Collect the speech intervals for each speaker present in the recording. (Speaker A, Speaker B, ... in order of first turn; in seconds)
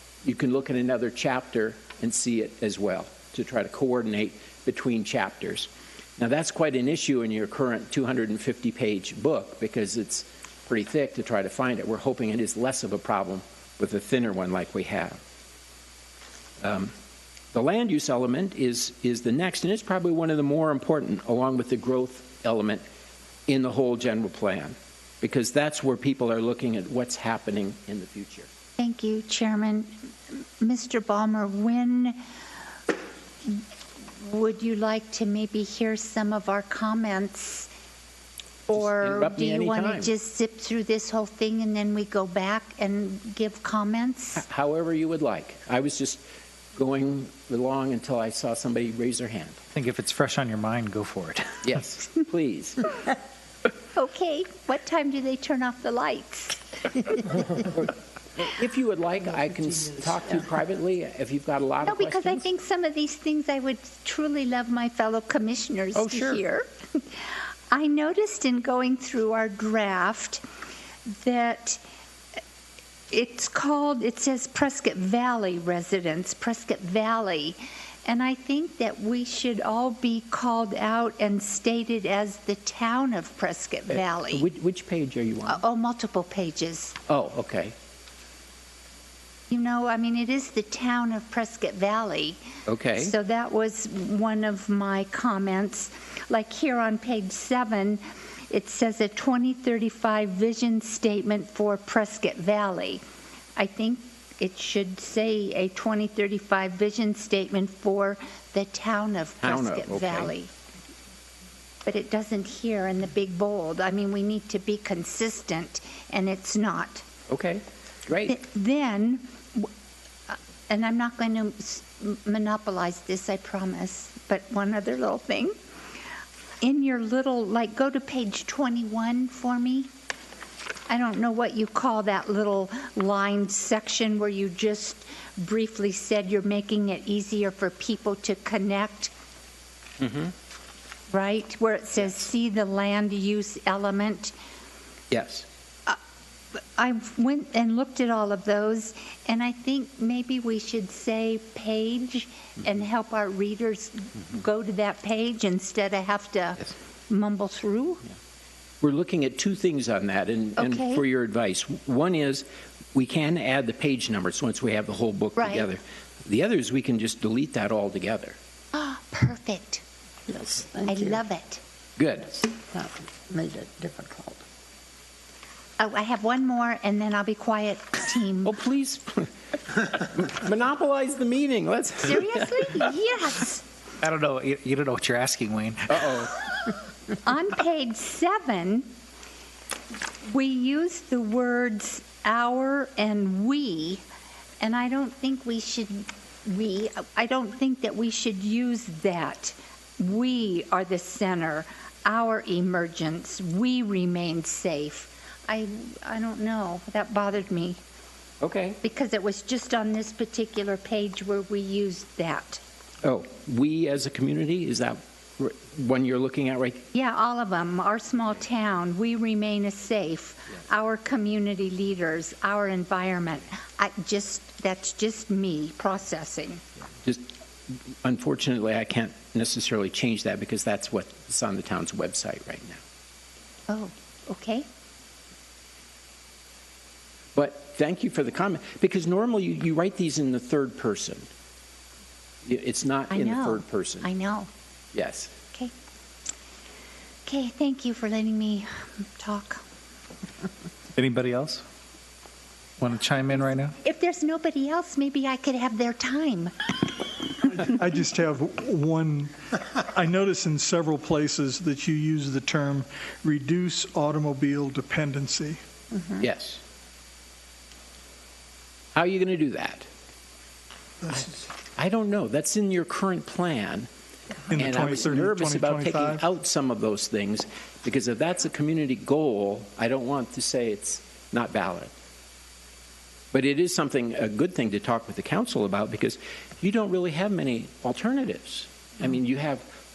Speaker A: 0.2-15.2, 16.6-16.9, 17.5-22.8, 23.5-28.5, 38.7-40.1, 44.4-46.2, 46.8-49.6, 51.6-52.9, 57.6-62.5, 65.9-66.4, 83.9-85.6, 87.1-87.7, 92.7-93.2, 109.4-110.3, 117.3-118.4, 140.0-140.3, 145.1-145.5, 158.8-168.4, 172.0-172.5, 178.4-182.9, 185.9-186.3, 208.4-208.8, 213.0-216.8, 227.0-227.3, 228.0-232.8, 237.3-241.3, 242.4-244.1, 244.9-245.3, 266.2-266.6, 268.9-269.9, 271.1-273.9, 274.5-281.9, 283.3-289.6
Speaker B: 28.8-32.2, 34.2-37.7, 38.7-44.4, 53.9-57.5, 61.8-70.4, 71.1-71.8, 73.1-84.5, 85.5-87.0, 89.5-92.4, 93.0-103.0, 103.6-110.5, 111.8-117.0, 118.3-119.7, 120.3-125.5, 126.6-129.9, 130.9-139.1, 141.1-144.3, 146.6-158.0, 160.6-161.0, 165.4-165.7, 168.7-169.8, 170.8-171.6, 175.8-178.5, 182.0-183.7, 187.2-188.9, 190.3-194.0, 194.6-207.8, 208.8-212.6, 216.9-226.6, 233.7-234.7, 243.1-244.5, 247.3-249.6, 253.8-257.2
Speaker C: 49.8-51.8, 184.0-186.2, 251.0-251.6, 252.8-253.8
Speaker D: 170.3-171.1, 172.3-174.4
Speaker E: 257.4-265.6, 274.5-276.2